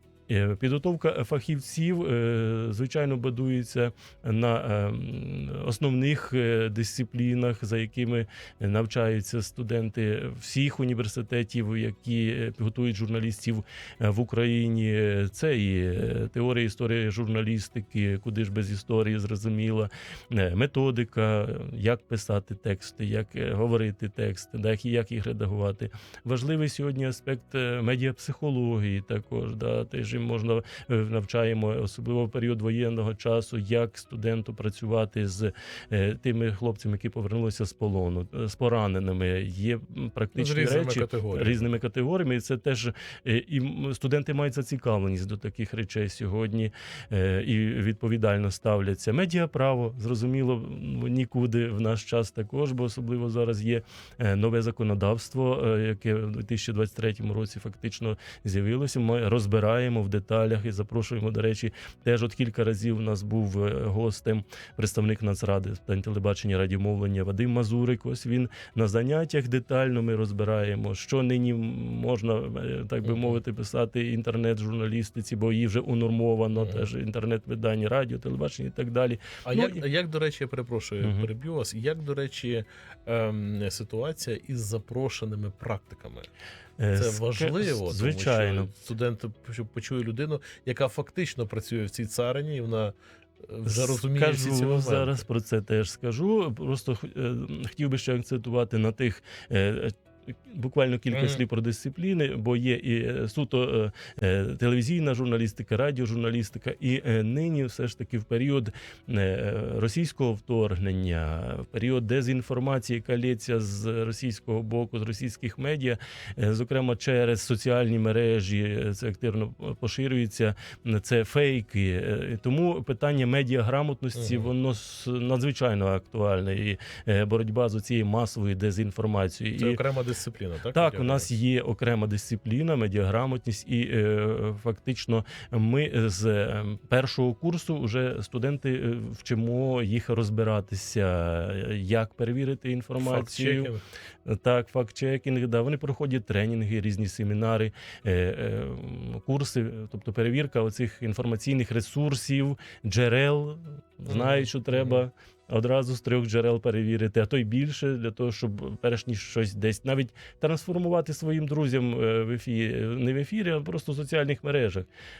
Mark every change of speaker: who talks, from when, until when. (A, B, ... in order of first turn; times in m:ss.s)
0:00.3-1:19.8 A
0:40.4-0:41.6 B
1:13.0-1:13.4 B
1:16.6-1:16.9 B
1:19.4-1:26.3 B
1:21.0-1:21.3 A
1:26.8-1:28.7 A
1:26.9-1:35.2 B
1:33.6-2:09.8 A
1:41.1-1:41.4 B
2:04.1-2:04.5 B
2:09.6-2:11.3 B
2:10.7-2:23.7 A
2:23.0-2:23.8 B
2:24.2-2:44.9 A
2:34.1-2:35.0 B